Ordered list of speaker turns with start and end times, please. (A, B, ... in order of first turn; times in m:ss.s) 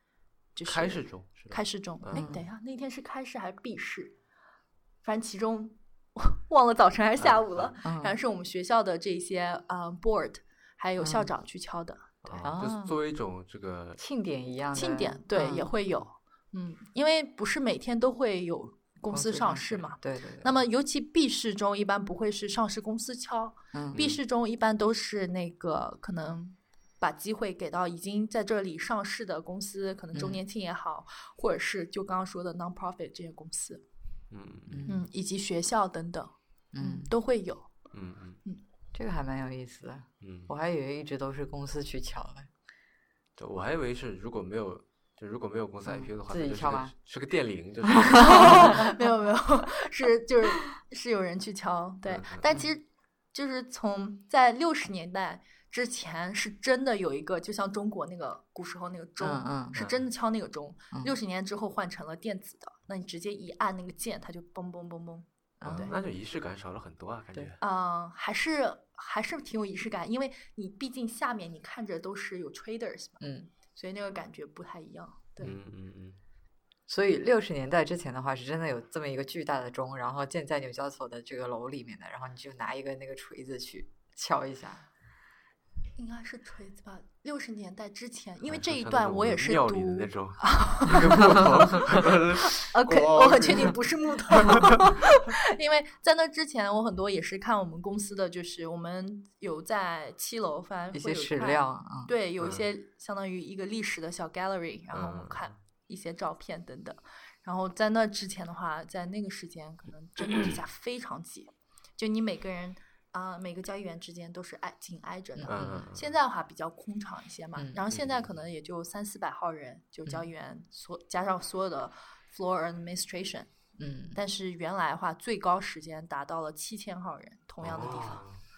0:00.5-0:04.1 A
0:00.6-0:02.3 B
0:02.1-0:02.4 C
0:05.0-0:12.1 A
0:07.2-0:07.7 B
0:07.8-0:08.1 C
0:11.0-0:11.3 C
0:12.2-0:14.0 B
0:12.4-0:12.9 C
0:14.0-0:15.7 C
0:14.7-0:33.8 A
0:19.1-0:20.6 C
0:23.7-0:24.0 C
0:23.9-0:24.2 B
0:30.1-0:30.4 C
0:34.3-0:34.8 B
0:34.7-0:35.0 C
0:34.9-0:37.7 A
0:36.7-0:37.1 C
0:37.9-0:38.4 B
0:38.9-0:42.5 C
0:40.2-0:40.5 B
0:43.4-0:48.8 B
0:45.9-0:46.9 C
0:47.9-0:48.9 C
0:48.2-1:05.9 A
0:52.0-0:52.5 B
0:59.2-0:59.8 C
0:59.7-1:00.0 B
1:05.6-1:06.0 C
1:05.6-1:07.6 B
1:07.6-1:15.5 A
1:13.2-1:13.5 C
1:15.4-1:16.2 B
1:16.9-1:24.8 C
1:26.0-1:31.8 A
1:28.5-1:34.9 B
1:32.6-2:03.5 A
1:40.9-1:42.1 C
1:44.9-1:45.5 B
1:55.4-1:55.9 C
1:55.5-1:56.1 B
1:57.9-1:58.2 B
2:03.8-2:04.2 C
2:04.1-2:08.2 A
2:07.6-2:08.4 B